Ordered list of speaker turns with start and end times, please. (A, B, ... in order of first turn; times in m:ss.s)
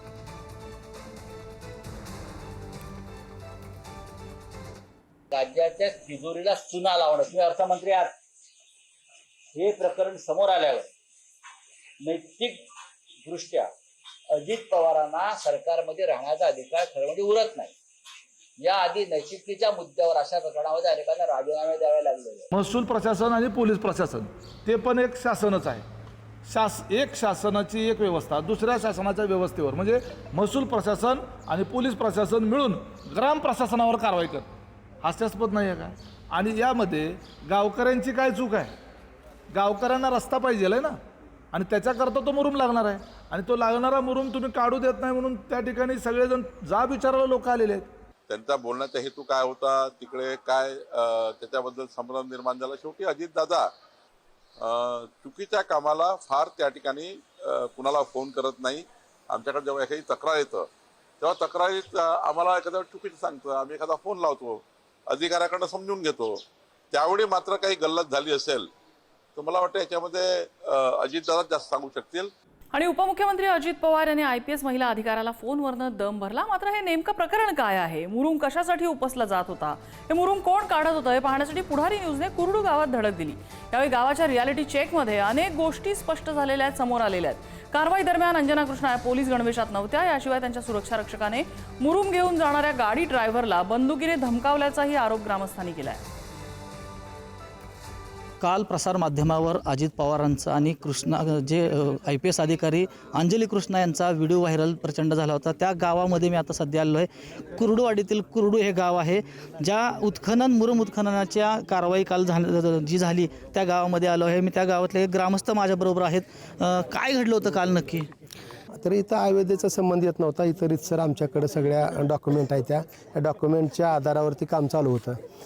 0:05.3-0:08.2 A
0:09.5-0:10.9 A
0:12.0-0:12.6 A
0:13.2-0:13.7 A
0:14.3-0:17.7 A
0:18.6-0:22.4 A
0:22.5-0:25.8 B
0:26.4-0:34.5 B
0:35.0-0:38.7 B
0:39.5-0:41.0 B
0:41.5-0:47.9 B
0:48.3-0:53.6 C
0:54.6-1:00.6 C
1:01.2-1:04.6 C
1:05.1-1:06.4 C
1:06.9-1:08.7 C
1:09.4-1:12.3 C
1:12.7-1:36.0 D
1:38.4-1:58.1 E
1:58.8-2:05.2 F